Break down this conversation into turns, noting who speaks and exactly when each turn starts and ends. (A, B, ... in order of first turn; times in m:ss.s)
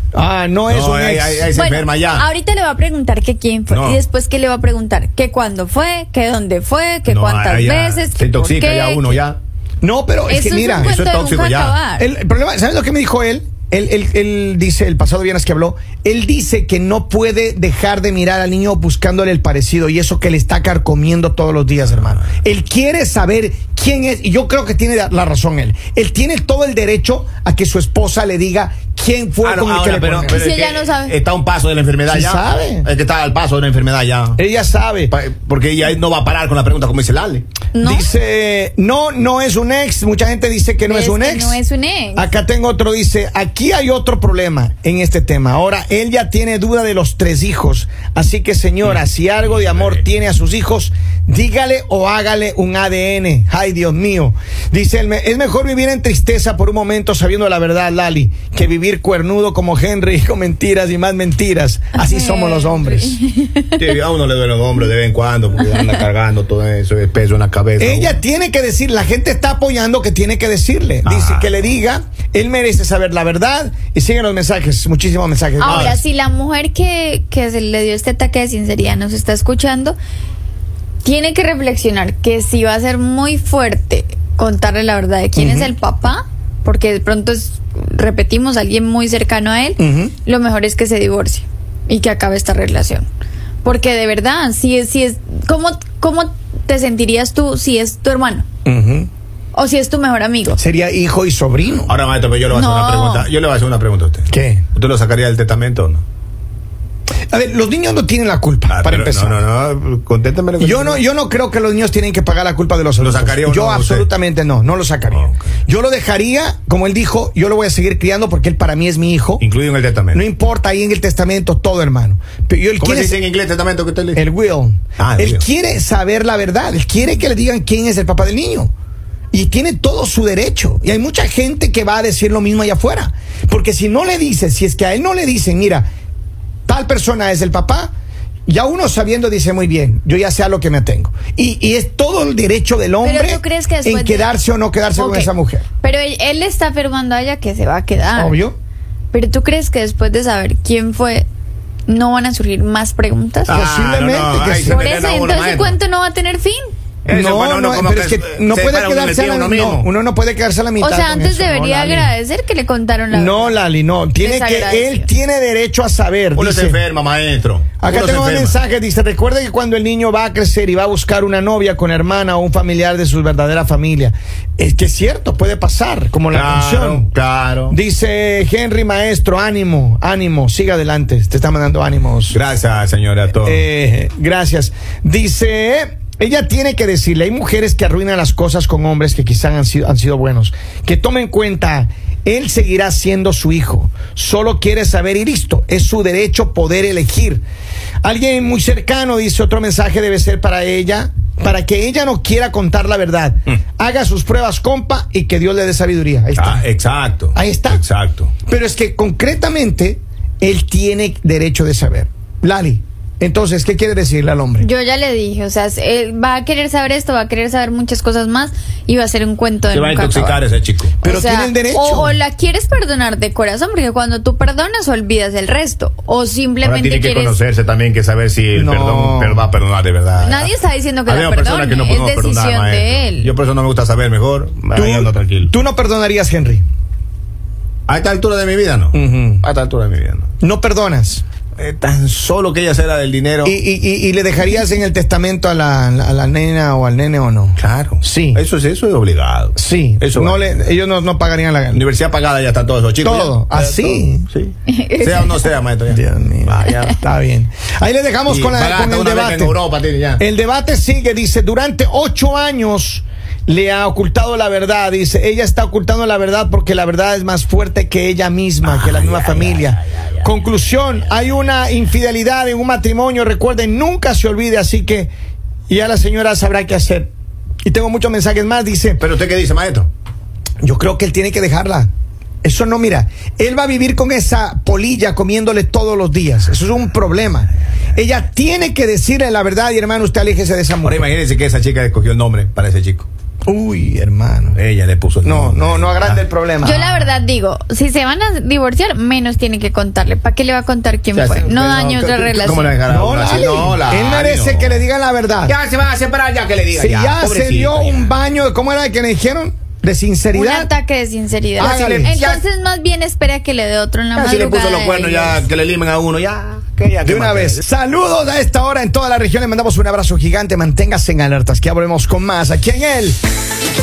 0:00.1-0:01.5 A
0:00.7-0:02.2 B
0:01.5-0:09.2 C
0:03.7-0:04.0 B
0:07.1-0:09.4 B
0:09.8-0:11.0 A
0:10.3-0:12.1 C
0:10.8-0:11.8 B
0:12.0-0:30.4 A
0:29.4-0:34.4 B
0:30.2-0:31.1 C
0:32.1-0:32.9 A
0:34.4-0:35.1 A
0:35.1-0:37.4 B
0:37.7-0:38.1 C
0:37.8-0:41.6 A
0:40.8-0:42.3 C
0:42.2-1:03.2 A
0:49.6-0:50.0 B
1:01.9-1:03.8 C
1:03.8-1:08.2 B
1:07.8-1:16.0 A
1:11.0-1:11.6 B
1:15.6-1:20.0 C
1:15.6-1:16.0 B
1:21.0-1:33.0 C
1:25.4-1:25.7 A
1:29.8-1:30.1 A
1:33.6-1:38.4 C
1:38.6-1:39.1 A
1:39.5-1:40.6 C
1:40.6-1:41.9 A
1:41.8-1:46.0 B
1:42.5-1:43.3 C
1:44.3-1:44.6 A
1:47.3-1:49.4 A
1:48.7-1:51.0 B
1:50.6-1:59.4 A
1:53.0-1:54.1 B
1:55.1-1:55.4 B
1:59.4-2:00.2 B
2:00.1-2:03.2 A
2:02.8-2:04.2 B
2:04.1-2:08.7 A
2:05.0-2:05.4 B
2:09.3-2:15.8 A
2:16.7-2:17.9 A
2:18.5-2:25.6 A
2:23.0-2:24.3 C
2:25.0-2:25.3 C
2:25.8-2:28.4 C
2:28.2-2:28.6 A
2:29.1-2:31.2 C
2:31.9-2:33.6 C
2:33.4-2:35.8 B
2:33.5-2:34.8 A
2:34.6-2:36.7 C
2:37.0-2:39.9 B
2:37.1-2:42.1 A
2:40.8-2:43.6 C
2:43.1-2:46.8 A
2:44.2-2:45.1 C
2:46.3-2:48.6 B
2:47.8-2:57.1 A
2:56.3-2:57.8 B
2:57.7-3:02.4 A
3:02.3-3:03.6 B
3:03.4-3:17.4 A
3:18.0-3:26.6 A
3:26.3-3:28.3 B
3:27.3-3:27.8 A
3:28.5-3:34.6 A
3:34.6-3:40.4 C
3:39.7-3:41.0 B
3:41.0-3:47.4 C
3:41.0-3:42.2 A
3:46.6-3:50.5 B
3:48.5-3:49.5 A
3:50.2-3:53.3 C
3:51.0-3:55.5 B
3:54.7-3:56.6 A
3:57.9-4:00.2 B
3:58.9-3:59.4 A
4:00.4-4:01.2 A
4:01.6-4:03.5 B
4:03.4-4:08.4 A
4:07.6-4:10.7 B
4:09.6-4:11.8 A
4:11.7-4:17.0 B
4:13.0-4:14.3 A
4:14.7-4:15.4 C
4:15.9-4:19.6 A
4:18.3-4:20.2 B
4:20.2-4:35.1 A
4:28.6-4:30.3 B
4:35.7-4:37.1 A
4:37.6-4:39.0 A
4:39.0-4:39.9 B
4:40.6-4:41.9 A
4:42.4-4:51.1 A
4:50.8-4:53.1 B
4:53.4-4:54.6 A
4:54.5-4:56.2 B
4:55.2-4:56.8 A
4:56.6-5:02.8 C
5:01.1-5:04.8 B
5:02.9-5:05.5 A
5:05.4-5:08.1 B
5:06.7-5:10.7 A
5:10.3-5:15.4 C
5:11.6-5:12.1 A
5:11.6-5:12.4 B
5:14.1-5:17.6 B
5:17.0-5:23.2 A